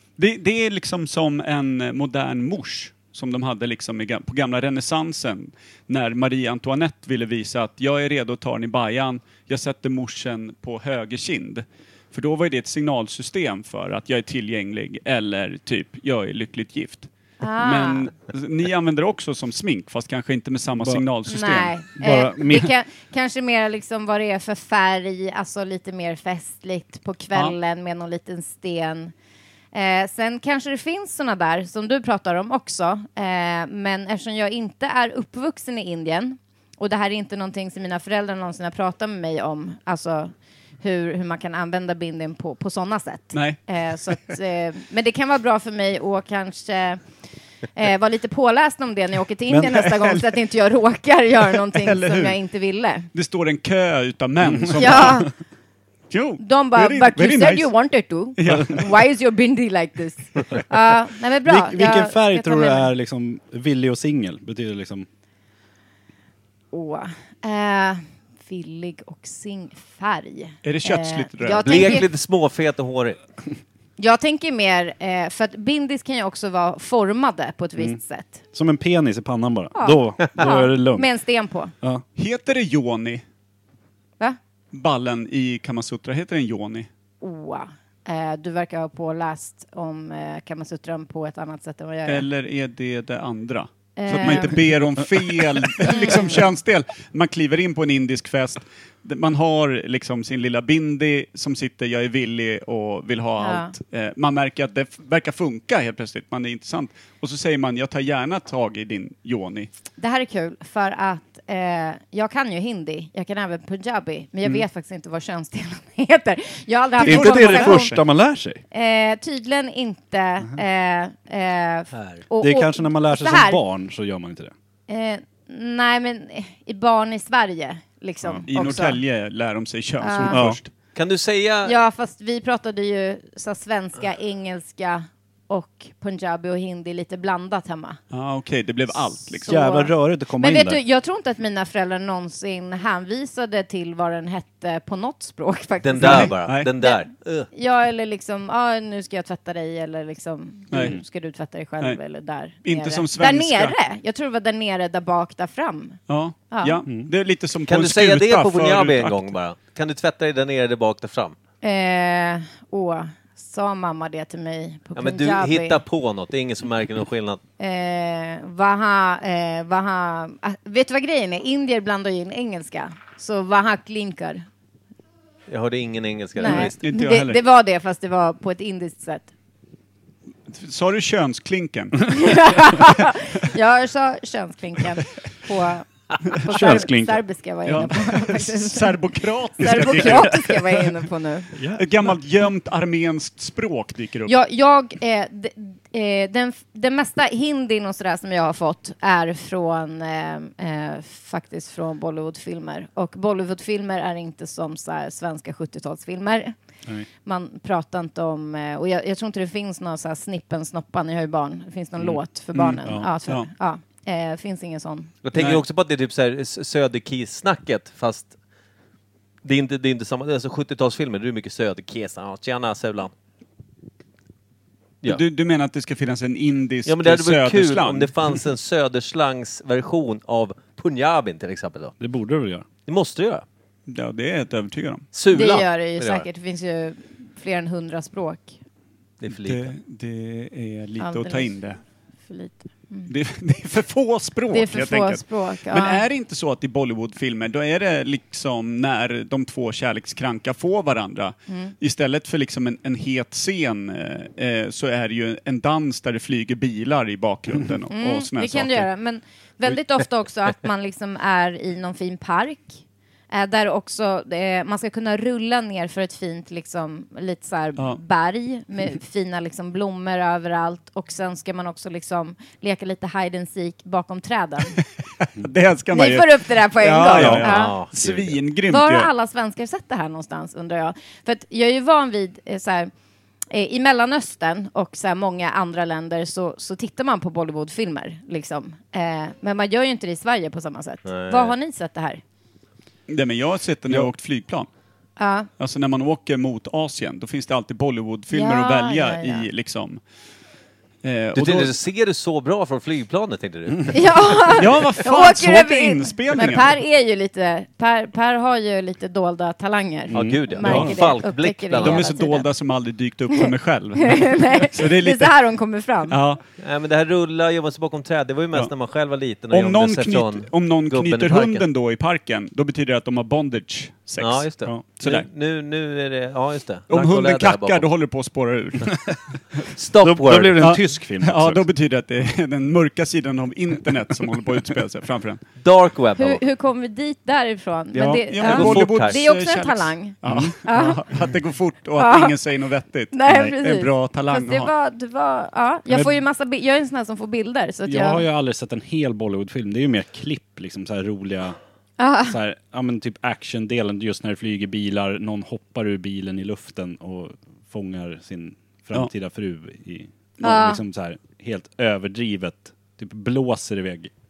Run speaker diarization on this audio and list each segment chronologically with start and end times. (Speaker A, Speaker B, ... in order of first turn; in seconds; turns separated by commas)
Speaker A: 0.2-21.7, Speaker B: 17.4-18.1, Speaker C: 20.8-21.0, Speaker B: 21.3-29.1, Speaker C: 22.0-22.7, Speaker B: 29.7-47.0, Speaker A: 43.3-43.6, Speaker B: 47.7-53.1, Speaker C: 49.5-49.9, Speaker A: 51.8-52.4, Speaker A: 53.1-55.3, Speaker C: 54.4-55.0, Speaker B: 54.8-55.3, Speaker A: 56.1-57.7, Speaker B: 56.4-62.9, Speaker A: 58.4-58.8, Speaker C: 61.5-65.1, Speaker B: 66.7-72.1, Speaker A: 70.6-72.0, Speaker D: 71.6-73.2, Speaker B: 74.0-78.4, Speaker C: 78.5-81.1, Speaker B: 79.8-81.7, Speaker A: 82.2-83.2, Speaker A: 84.7-86.9, Speaker B: 87.2-92.3, Speaker A: 92.0-109.7, Speaker B: 94.0-94.6, Speaker B: 95.8-96.5, Speaker B: 103.4-103.7, Speaker B: 110.0-118.0, Speaker A: 117.0-118.0, Speaker C: 117.0-118.6, Speaker B: 118.7-123.6, Speaker D: 121.9-122.2, Speaker C: 122.4-124.5, Speaker B: 124.9-129.0, Speaker A: 128.5-130.7, Speaker B: 130.0-130.4, Speaker C: 130.3-130.6, Speaker D: 130.9-131.8, Speaker B: 131.6-138.0, Speaker A: 138.1-139.6, Speaker C: 139.4-140.8, Speaker B: 139.4-156.0, Speaker D: 145.8-147.5, Speaker A: 146.0-146.7, Speaker A: 150.7-151.0, Speaker C: 150.7-151.0, Speaker A: 152.6-153.7, Speaker A: 156.1-159.3, Speaker B: 156.5-156.8, Speaker D: 157.7-161.3, Speaker B: 161.6-165.8, Speaker D: 164.9-167.4, Speaker B: 167.6-174.4, Speaker D: 175.5-176.8, Speaker B: 176.4-179.3, Speaker A: 176.4-177.4, Speaker A: 180.5-182.9, Speaker B: 182.1-189.0, Speaker C: 186.5-187.2, Speaker A: 187.7-190.6, Speaker B: 189.6-191.5, Speaker C: 191.5-192.1, Speaker A: 191.8-194.3, Speaker B: 194.3-206.5, Speaker B: 207.2-215.1, Speaker A: 212.5-213.5, Speaker D: 215.2-218.3, Speaker A: 215.3-215.6, Speaker D: 219.4-223.1, Speaker A: 225.1-228.1, Speaker D: 226.8-231.9, Speaker C: 232.0-232.7, Speaker D: 232.8-233.4, Speaker A: 233.9-235.1, Speaker D: 235.1-236.2, Speaker B: 235.3-238.6, Speaker D: 239.2-239.7, Speaker A: 239.3-241.8, Speaker B: 241.0-241.5, Speaker B: 242.3-243.1, Speaker A: 243.1-258.9, Speaker B: 244.5-246.0, Speaker B: 251.5-251.7, Speaker B: 257.9-274.8, Speaker A: 275.2-279.1, Speaker B: 275.9-277.8, Speaker C: 277.1-277.4, Speaker D: 277.4-278.4, Speaker B: 278.7-282.9, Speaker B: 283.5-292.2, Speaker D: 291.1-291.5, Speaker A: 293.1-294.7, Speaker B: 295.2-295.5, Speaker A: 295.6-300.0, Speaker B: 298.3-299.5, Speaker A: 301.0-301.7, Speaker D: 301.3-304.5, Speaker B: 303.9-312.5, Speaker A: 304.5-306.7, Speaker C: 310.1-310.9, Speaker D: 310.1-312.1, Speaker A: 310.6-310.9, Speaker A: 311.8-315.3, Speaker B: 313.4-316.2, Speaker A: 316.1-316.4, Speaker D: 316.6-321.6, Speaker A: 319.5-324.5, Speaker D: 324.2-327.9, Speaker A: 325.0-325.2, Speaker A: 326.9-329.6, Speaker D: 329.8-330.7, Speaker C: 330.0-331.6, Speaker A: 330.6-335.4, Speaker D: 335.6-336.4, Speaker B: 336.2-341.0, Speaker C: 337.9-338.2, Speaker A: 338.3-344.7, Speaker D: 338.4-339.2, Speaker C: 340.2-340.6, Speaker B: 342.0-342.3, Speaker B: 343.1-348.2, Speaker C: 345.9-346.1, Speaker C: 347.8-351.6, Speaker B: 352.0-352.4, Speaker C: 352.3-364.1, Speaker B: 360.4-360.8